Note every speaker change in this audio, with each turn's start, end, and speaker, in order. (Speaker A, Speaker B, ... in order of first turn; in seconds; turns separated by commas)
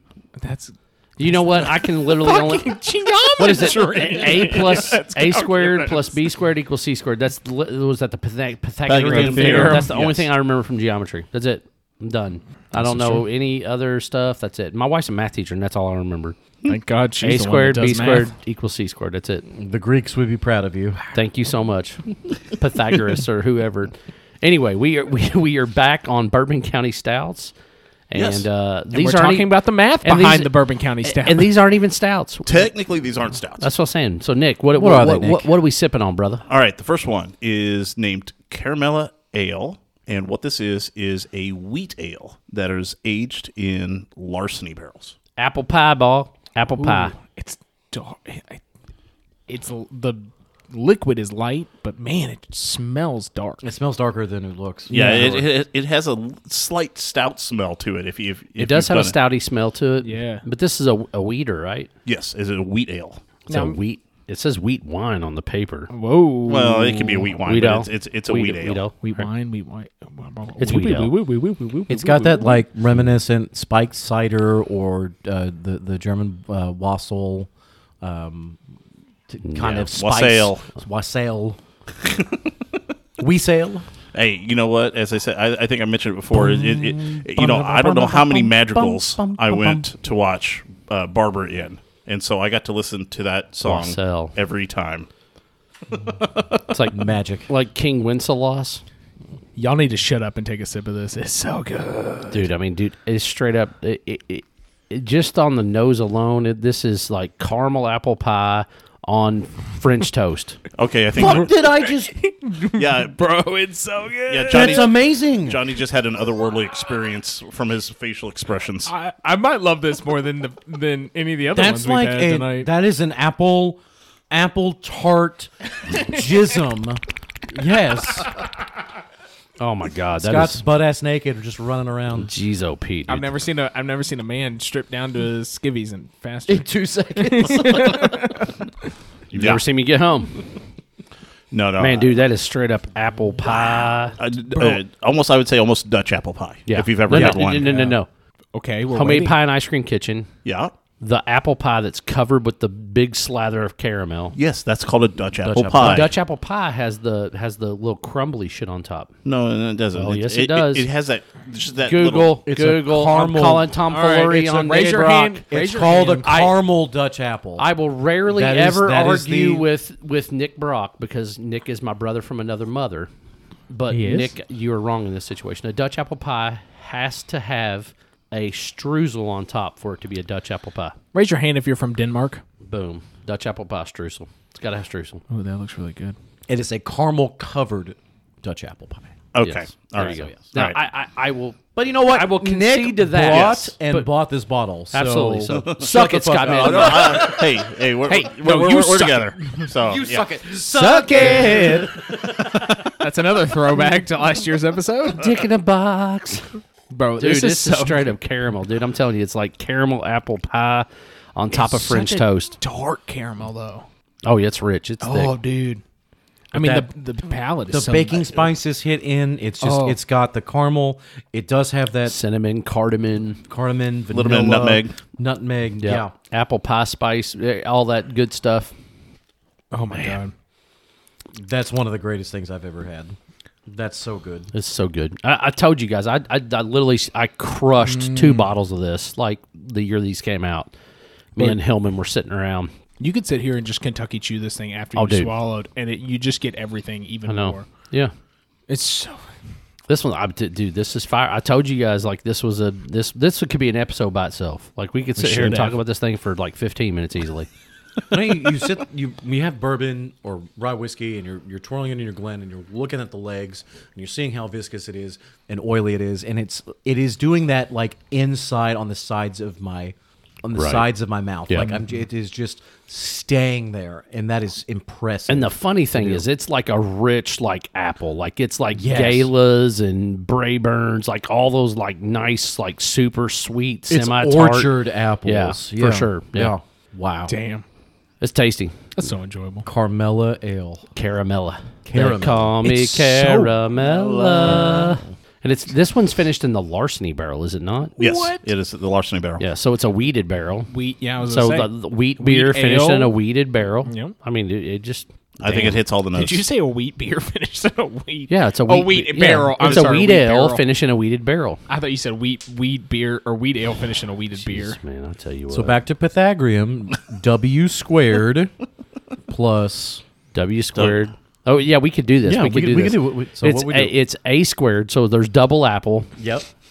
Speaker A: 0.4-6.1, Speaker B: 1.2-2.7, Speaker B: 3.4-16.4, Speaker C: 8.9-10.3, Speaker A: 9.0-9.9, Speaker A: 16.7-18.3, Speaker B: 17.2-19.4, Speaker D: 19.5-21.2, Speaker B: 21.1-27.5, Speaker B: 28.1-29.5, Speaker C: 28.1-28.5, Speaker A: 28.9-31.5, Speaker B: 30.0-30.5, Speaker B: 31.0-32.7, Speaker C: 32.5-33.7, Speaker B: 33.6-36.4, Speaker D: 34.7-35.5, Speaker C: 36.5-45.1, Speaker B: 45.4-47.1, Speaker A: 46.8-48.6, Speaker A: 49.5-53.6, Speaker D: 53.6-55.5, Speaker C: 54.9-59.2, Speaker B: 58.6-61.9, Speaker A: 60.0-60.5, Speaker C: 62.0-63.2, Speaker B: 63.5-65.9, Speaker A: 63.5-63.8, Speaker A: 65.9-67.4, Speaker C: 66.5-68.9, Speaker B: 67.4-69.2, Speaker A: 69.0-72.6, Speaker B: 70.6-71.1, Speaker D: 71.9-77.5, Speaker D: 78.0-78.6, Speaker D: 79.3-81.6, Speaker B: 79.4-79.8, Speaker C: 79.6-80.7, Speaker C: 82.0-82.4, Speaker D: 83.2-83.9, Speaker C: 84.1-95.1, Speaker D: 86.3-89.9, Speaker B: 93.6-94.3, Speaker B: 96.7-98.8, Speaker D: 96.9-97.5, Speaker A: 99.6-102.5, Speaker B: 102.3-110.6, Speaker C: 110.8-111.6, Speaker D: 111.2-112.1, Speaker A: 111.2-114.9, Speaker C: 112.8-113.2, Speaker C: 114.3-118.9, Speaker D: 114.5-115.6, Speaker A: 118.9-122.7, Speaker D: 121.5-128.4, Speaker B: 129.6-130.6, Speaker D: 130.2-132.3, Speaker B: 132.1-133.3, Speaker A: 133.1-138.6, Speaker D: 136.5-138.5, Speaker B: 139.3-140.4, Speaker C: 139.3-139.6, Speaker C: 141.5-142.2, Speaker B: 141.8-144.8, Speaker C: 144.2-147.7, Speaker B: 146.7-148.1, Speaker A: 147.1-148.0, Speaker A: 148.5-149.4, Speaker B: 148.9-150.3, Speaker C: 150.4-150.7, Speaker B: 151.0-154.4, Speaker C: 154.3-156.1, Speaker B: 155.4-159.1, Speaker C: 159.2-162.4, Speaker B: 159.9-160.9, Speaker B: 161.8-165.4, Speaker D: 162.4-163.8, Speaker A: 163.9-166.5, Speaker D: 165.5-167.7, Speaker B: 166.2-166.5, Speaker B: 167.6-173.1, Speaker D: 168.3-169.7, Speaker B: 173.7-181.0, Speaker A: 173.9-174.3, Speaker A: 181.1-182.4, Speaker B: 182.6-185.2, Speaker A: 185.3-186.2, Speaker D: 186.5-189.1, Speaker C: 189.3-190.8, Speaker B: 189.4-194.1, Speaker D: 190.1-190.3, Speaker D: 191.8-197.5, Speaker C: 193.3-193.6, Speaker B: 194.9-197.3, Speaker C: 196.4-200.2, Speaker A: 198.1-199.7, Speaker D: 199.8-202.8, Speaker A: 200.6-205.3, Speaker B: 205.1-206.5, Speaker A: 206.9-208.1, Speaker B: 207.2-212.6, Speaker A: 211.5-213.9, Speaker B: 214.2-215.4, Speaker A: 215.0-215.8, Speaker A: 216.5-218.5, Speaker D: 216.6-216.9, Speaker D: 217.7-222.2, Speaker A: 219.6-220.0, Speaker B: 222.1-223.4, Speaker D: 223.5-226.1, Speaker C: 224.1-224.9, Speaker B: 225.8-228.7, Speaker A: 229.7-230.3, Speaker D: 231.4-234.5, Speaker B: 234.5-240.7, Speaker A: 237.8-238.5, Speaker B: 241.4-242.7, Speaker A: 243.0-247.7, Speaker B: 244.9-245.3, Speaker B: 247.3-248.1, Speaker A: 248.7-249.3, Speaker B: 249.9-257.5, Speaker A: 255.2-255.8, Speaker D: 258.1-276.2, Speaker B: 270.6-270.9, Speaker B: 275.3-284.7, Speaker D: 278.8-279.3, Speaker D: 283.9-287.3, Speaker B: 285.2-286.5, Speaker A: 287.3-287.6, Speaker B: 288.2-288.9, Speaker A: 289.0-289.7, Speaker D: 289.6-290.9, Speaker B: 290.9-297.9, Speaker D: 291.9-292.6, Speaker A: 292.6-293.6, Speaker A: 294.4-294.7, Speaker D: 294.4-295.0, Speaker A: 298.0-298.5, Speaker C: 298.0-299.4, Speaker B: 299.4-300.7, Speaker A: 300.7-303.2, Speaker B: 301.2-305.8, Speaker A: 303.9-304.1, Speaker C: 305.4-306.4, Speaker A: 306.1-310.6, Speaker B: 308.3-311.6, Speaker A: 311.7-314.8, Speaker B: 314.4-315.8, Speaker D: 315.5-318.5, Speaker D: 319.3-320.0, Speaker B: 320.3-326.1, Speaker D: 322.2-323.9, Speaker D: 326.2-326.5